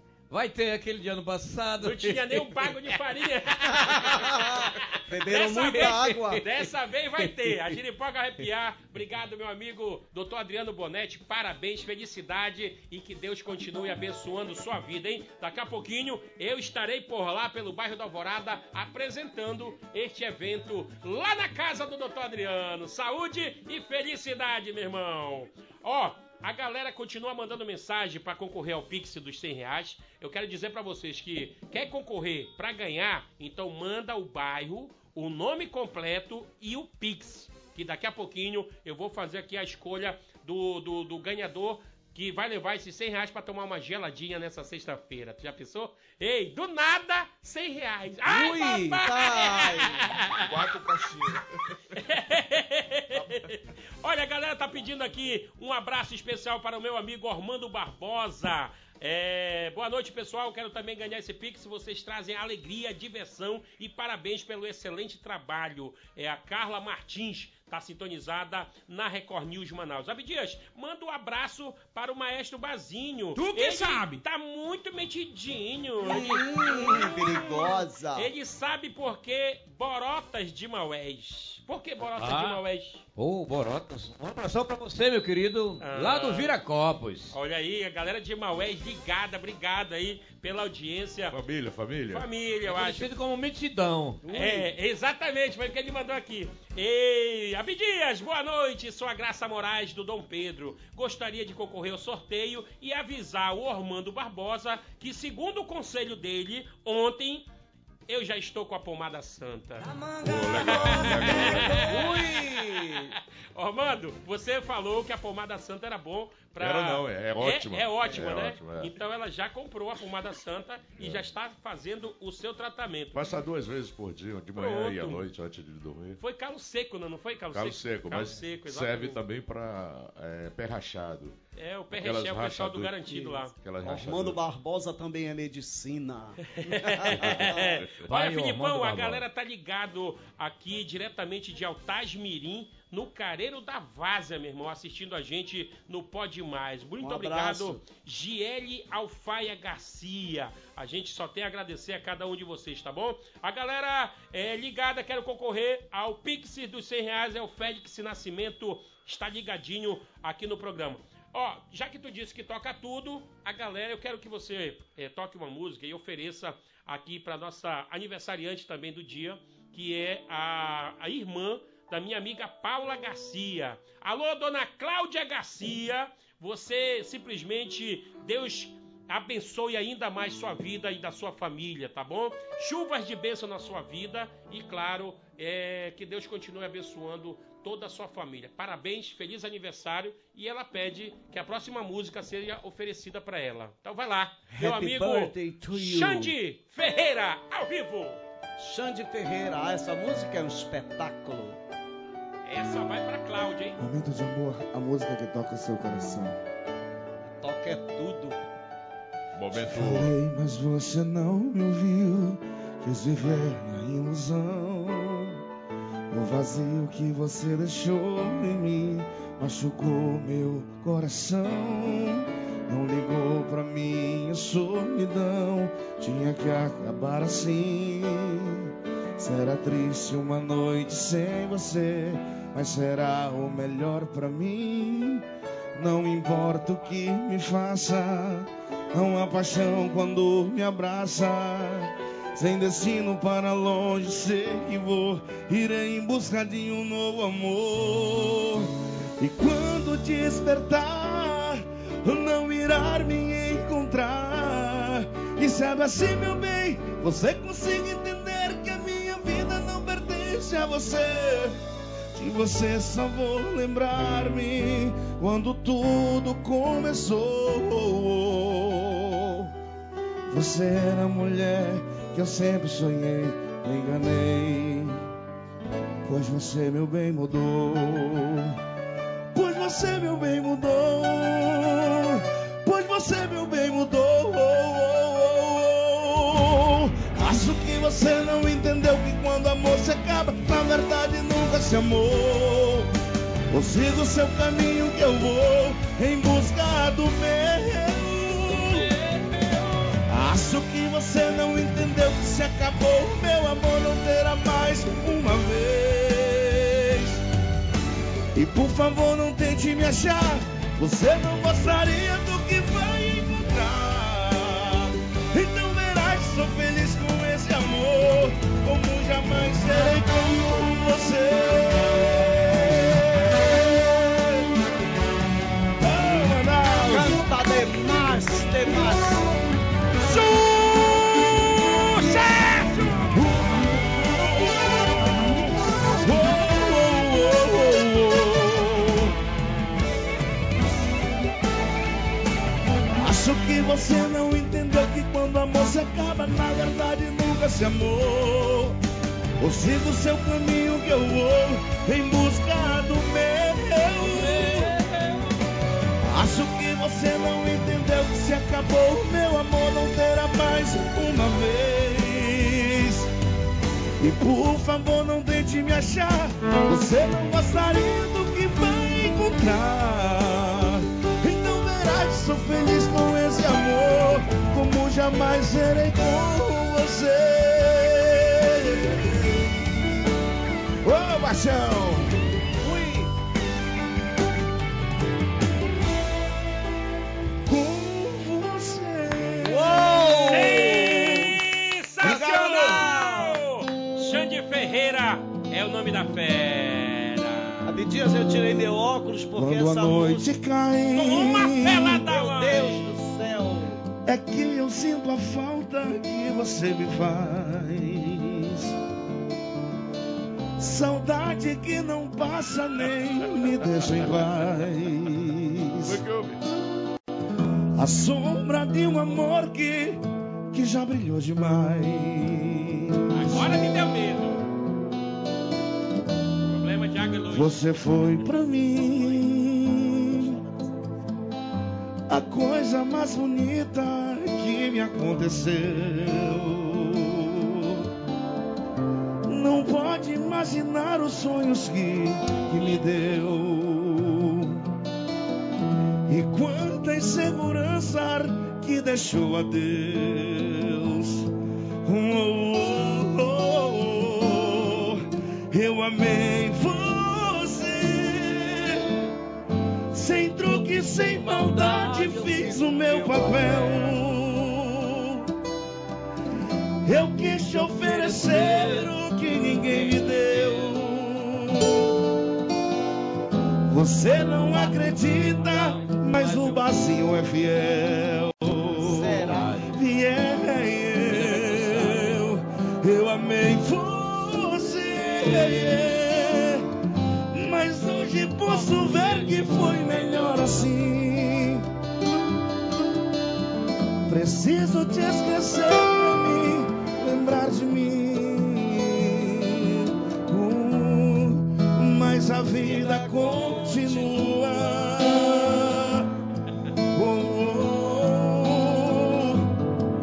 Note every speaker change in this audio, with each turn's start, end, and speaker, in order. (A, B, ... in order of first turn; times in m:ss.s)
0:00.3-0:02.5 A
0:01.8-0:50.5 B
0:03.9-0:06.6 C
0:48.2-0:50.1 C
0:50.4-0:51.7 D
0:51.9-1:23.0 B
1:13.4-1:14.1 A
1:16.0-1:18.3 C
1:22.2-1:22.6 A
1:23.1-1:27.4 A
1:25.8-1:26.6 B
1:27.3-1:31.4 B
1:31.3-1:32.3 E
1:32.1-1:33.1 B
1:32.7-1:34.2 A
1:34.2-1:34.7 C
1:34.3-1:47.5 B
1:48.1-1:50.0 B
1:50.2-1:52.0 E
1:50.8-1:52.1 B
1:51.8-1:53.1 C
1:53.5-2:03.2 B
1:56.6-1:58.9 E
2:01.0-2:01.2 E
2:03.1-2:06.2 E
2:04.5-2:05.2 B
2:06.2-2:09.2 B
2:07.5-2:11.4 E
2:11.5-2:13.5 B
2:11.9-2:13.0 E
2:13.1-2:17.8 C
2:13.5-2:14.4 E
2:16.5-3:18.2 B
2:17.1-2:18.1 E
2:18.0-2:19.2 A
2:27.0-2:27.8 C
3:14.5-3:16.3 C
3:18.6-3:21.6 C
3:22.4-3:23.8 B
3:23.8-3:26.4 D
3:27.2-3:28.4 C
3:29.3-3:30.1 E
3:29.5-3:35.4 D
3:36.1-4:21.6 D
4:22.1-4:29.5 D
4:30.3-4:35.0 D
4:36.0-4:38.6 D
4:39.3-4:53.0 D
4:53.5-4:59.0 D
4:58.7-5:00.0 B
5:00.0-5:07.2 D
5:08.3-5:24.5 D
5:25.8-5:27.3 D
5:26.8-5:29.4 C
5:28.6-5:29.2 D
5:30.0-5:31.8 D
5:30.0-5:33.3 B
5:33.1-5:39.2 D
5:42.9-5:48.8 D
5:49.4-5:54.8 D
5:54.4-5:55.2 B
5:56.0-6:03.1 D
6:04.0-6:20.0 D
6:20.8-6:22.2 D
6:22.6-6:23.1 C
6:27.4-6:31.4 D
6:29.4-6:31.2 C
6:30.3-6:37.7 B
6:32.0-6:33.4 C
6:37.6-6:40.3 C
6:39.3-6:42.1 D
6:40.9-6:42.9 B
6:41.9-6:43.9 C
6:44.0-6:48.8 D
6:50.6-6:56.0 D
6:55.8-6:56.4 E
6:57.8-7:03.6 D
7:03.1-7:04.4 B
7:06.4-7:07.7 B
7:07.3-7:10.4 D
7:08.7-7:11.0 C
7:12.1-7:17.9 D
7:19.2-7:24.7 D
7:26.1-7:38.9 D
7:39.9-7:45.3 D
7:41.2-7:44.0 B
7:46.8-7:52.0 D
7:48.4-7:48.6 B
7:49.7-7:50.3 B
7:53.7-8:06.7 D
7:54.7-7:55.8 C
7:56.2-7:56.5 A
7:58.8-7:59.6 C
8:01.3-8:02.0 A
8:07.3-8:11.7 D
8:14.0-8:26.1 D
8:22.6-8:24.0 C
8:23.2-8:23.7 B
8:26.8-8:29.6 D